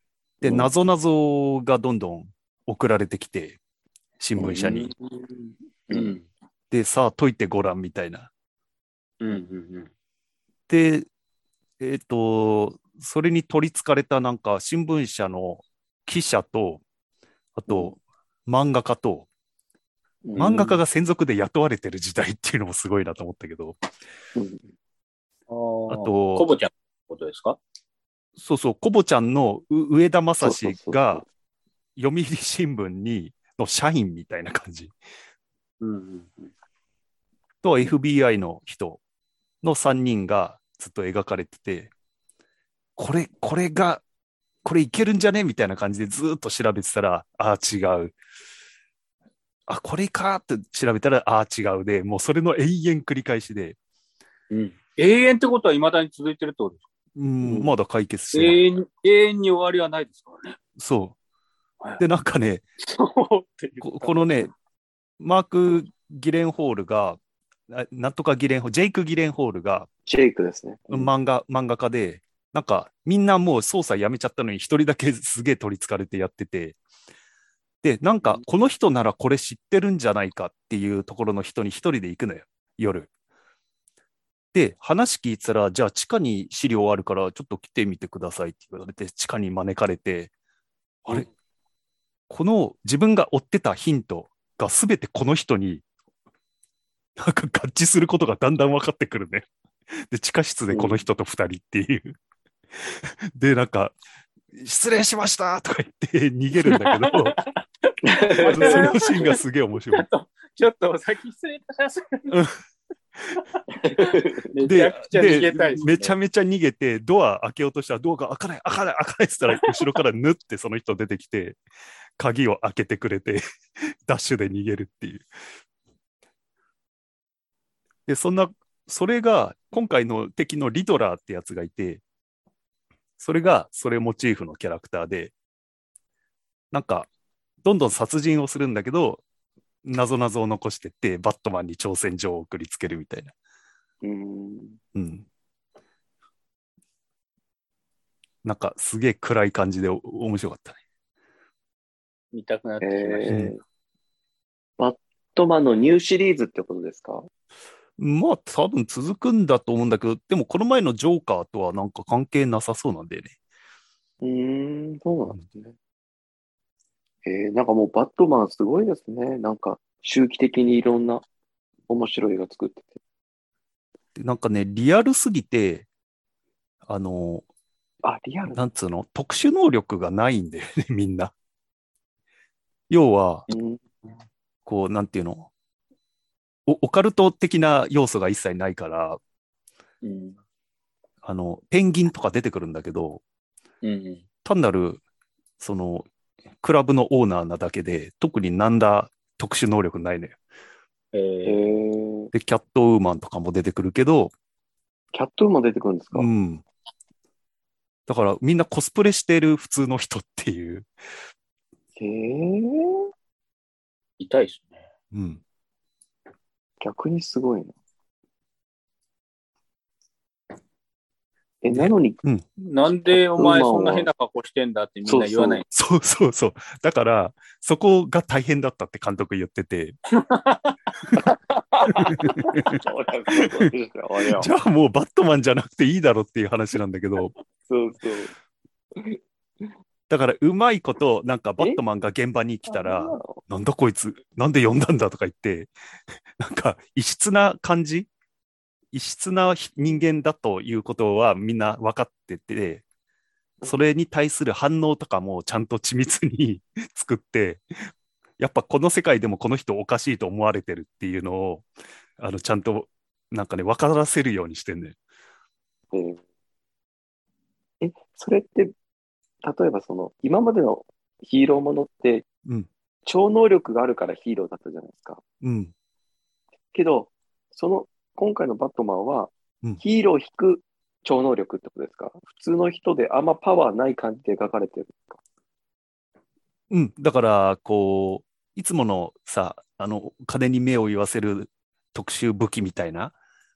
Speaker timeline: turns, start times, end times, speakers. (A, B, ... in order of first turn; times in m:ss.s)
0:00.4-0:00.7 A
0:00.4-0:03.6 B
0:04.2-0:04.9 B
0:04.4-0:04.9 A
0:05.9-0:06.2 A
0:05.9-0:06.3 C
0:06.7-0:08.3 B
0:09.2-0:09.9 C
0:10.7-0:11.0 B
0:11.8-0:16.8 B
0:17.6-0:19.3 B
0:17.7-0:17.9 A
0:20.2-0:20.8 A
0:20.4-0:23.8 B
0:24.3-0:24.7 A
0:25.5-0:27.6 C
0:25.9-0:26.5 B
0:28.4-0:31.2 B
0:30.4-0:31.2 A
0:32.0-0:34.9 B
0:35.8-0:36.5 C
0:37.6-0:39.0 B
0:39.6-0:41.9 B
0:43.0-0:44.0 B
0:44.6-0:48.1 B
0:49.7-0:53.8 B
0:54.5-0:56.8 C
0:57.2-0:58.6 B
0:58.3-1:00.6 C
1:00.8-1:01.1 B
1:02.0-1:02.6 B
1:02.8-1:04.3 C
1:03.8-1:04.5 B
1:05.2-1:09.9 B
1:10.0-1:11.1 A
1:10.9-1:16.8 B
1:17.8-1:23.1 B
1:24.5-1:30.3 B
1:32.3-1:35.8 B
1:37.2-1:39.4 B
1:40.1-1:42.2 B
1:40.7-1:41.0 A
1:42.8-1:43.9 B
1:44.5-1:47.4 B
1:46.6-1:49.4 C
1:48.0-1:48.9 A
1:48.4-1:50.1 B
1:49.9-1:52.3 C
1:52.3-1:52.5 B
1:53.5-1:56.1 C
1:53.8-1:54.4 A
1:54.6-2:01.6 B
2:02.2-2:05.2 B
2:08.1-2:12.0 B
2:13.2-2:15.3 B
2:16.7-2:17.1 B
2:17.6-2:19.2 B
2:19.8-2:23.3 B
2:24.0-2:24.8 A
2:24.9-2:25.2 B
2:28.4-2:30.8 B
2:32.3-2:33.3 C
2:32.8-2:33.6 A
2:33.2-2:33.5 B
2:34.8-2:37.2 A
2:38.0-2:43.3 B
2:44.2-2:45.7 A
2:47.2-2:51.2 A
2:51.9-2:53.0 A
2:54.2-2:55.9 B
2:56.8-2:57.4 B
2:58.0-2:58.6 A
2:58.5-3:01.3 B
3:02.9-3:03.5 B
3:03.5-3:03.8 A
3:04.6-3:05.5 B
3:06.7-3:09.2 B
3:10.0-3:10.3 C
3:11.2-3:13.2 B
3:13.8-3:14.2 C
3:14.4-3:15.0 B
3:15.6-3:16.0 B
3:16.6-3:20.4 B
3:21.1-3:21.7 C
3:21.4-3:22.3 A
3:22.3-3:24.3 B
3:25.1-3:26.3 A
3:26.1-3:26.6 B
3:28.1-3:30.9 B
3:32.0-3:32.9 A
3:34.2-3:34.8 C
3:35.1-3:35.4 B
3:36.8-3:37.7 A
3:41.6-3:42.2 A
3:41.7-3:42.4 B
3:42.6-3:45.6 C
3:43.4-3:44.1 A
3:45.0-3:45.6 A
3:45.7-3:49.9 B
3:50.1-3:51.0 C
3:51.2-3:54.5 A
3:52.0-3:52.8 B
3:53.4-3:53.7 B
3:54.3-3:57.4 B
3:57.5-3:58.3 A
3:58.9-3:59.7 A
4:00.1-4:05.7 B
4:02.7-4:03.3 A
4:06.4-4:08.1 B
4:08.9-4:12.8 B
4:13.6-4:17.8 B
4:18.4-4:21.6 B
4:22.2-4:25.0 B
4:25.9-4:26.2 A
4:27.8-4:28.7 A
4:29.4-4:32.3 A
4:33.0-4:35.2 A
4:35.4-4:35.7 B
4:36.7-4:45.2 A
4:46.7-4:53.1 B